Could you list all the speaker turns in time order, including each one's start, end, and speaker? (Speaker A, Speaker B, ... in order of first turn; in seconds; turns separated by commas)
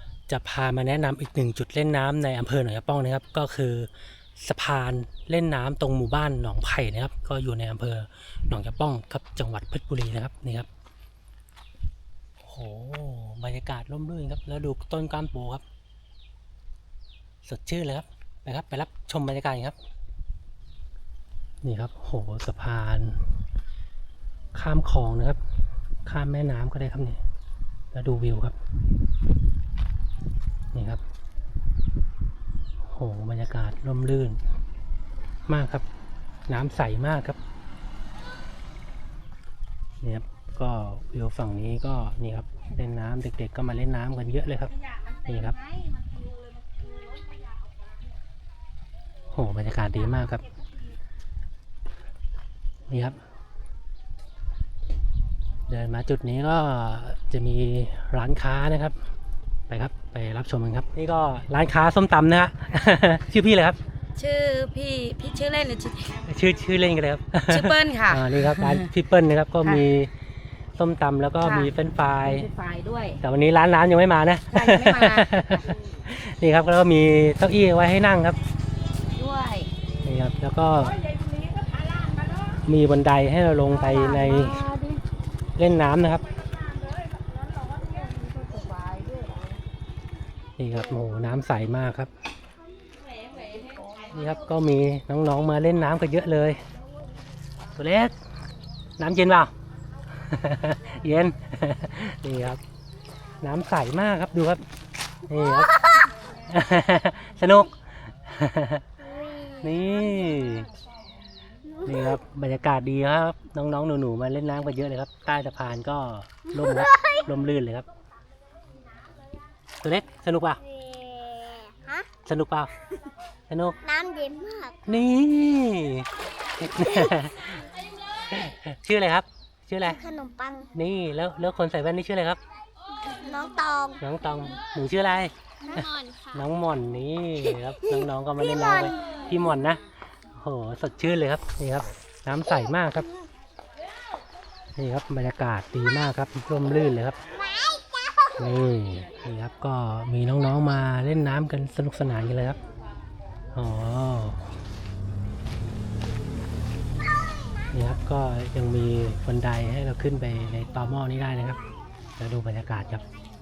Speaker A: 0.3-10.7, Speaker A: 12.4-15.6, Speaker A: 17.4-19.8, Speaker A: 21.6-23.2, Speaker A: 24.5-25.4, Speaker A: 26.0-27.2, Speaker A: 27.9-28.6, Speaker A: 30.7-31.0, Speaker A: 32.9-34.4, Speaker A: 35.5-35.9, Speaker A: 36.5-37.4, Speaker A: 40.0-45.6, Speaker A: 49.3-50.4, Speaker A: 52.9-53.2, Speaker A: 55.7-59.0, Speaker A: 59.7-63.8, Speaker B: 64.2-66.2, Speaker A: 66.2-70.1, Speaker B: 67.5-68.9, Speaker A: 70.8-72.5, Speaker B: 71.4-71.7, Speaker B: 72.2-73.2, Speaker A: 73.2-78.4, Speaker B: 74.5-75.7, Speaker B: 79.1-79.7, Speaker A: 80.0-81.0, Speaker A: 82.6-84.7, Speaker B: 83.8-85.0, Speaker A: 85.6-86.2, Speaker B: 87.7-89.5, Speaker A: 90.6-92.1, Speaker B: 93.4-93.9, Speaker A: 94.1-96.6, Speaker A: 97.8-98.1, Speaker A: 99.0-99.5, Speaker A: 100.1-102.6, Speaker A: 103.4-104.6, Speaker A: 105.3-105.8, Speaker C: 105.6-106.1, Speaker A: 106.5-108.8, Speaker C: 109.0-110.3, Speaker A: 109.6-110.7, Speaker C: 111.7-112.1, Speaker A: 111.8-117.8, Speaker C: 116.6-117.2, Speaker A: 119.8-120.6, Speaker C: 120.7-122.1, Speaker A: 122.2-122.7, Speaker A: 123.5-123.8, Speaker C: 123.8-124.8, Speaker A: 124.8-127.7, Speaker A: 128.2-130.0, Speaker C: 129.8-130.7, Speaker A: 130.7-132.4, Speaker C: 133.0-134.0, Speaker A: 134.0-139.8, Speaker C: 135.7-136.4, Speaker C: 138.4-139.0, Speaker A: 140.3-143.1, Speaker A: 144.8-147.2, Speaker C: 147.4-148.4, Speaker A: 148.4-152.6, Speaker A: 153.5-154.5, Speaker A: 157.7-161.6, Speaker A: 162.2-163.0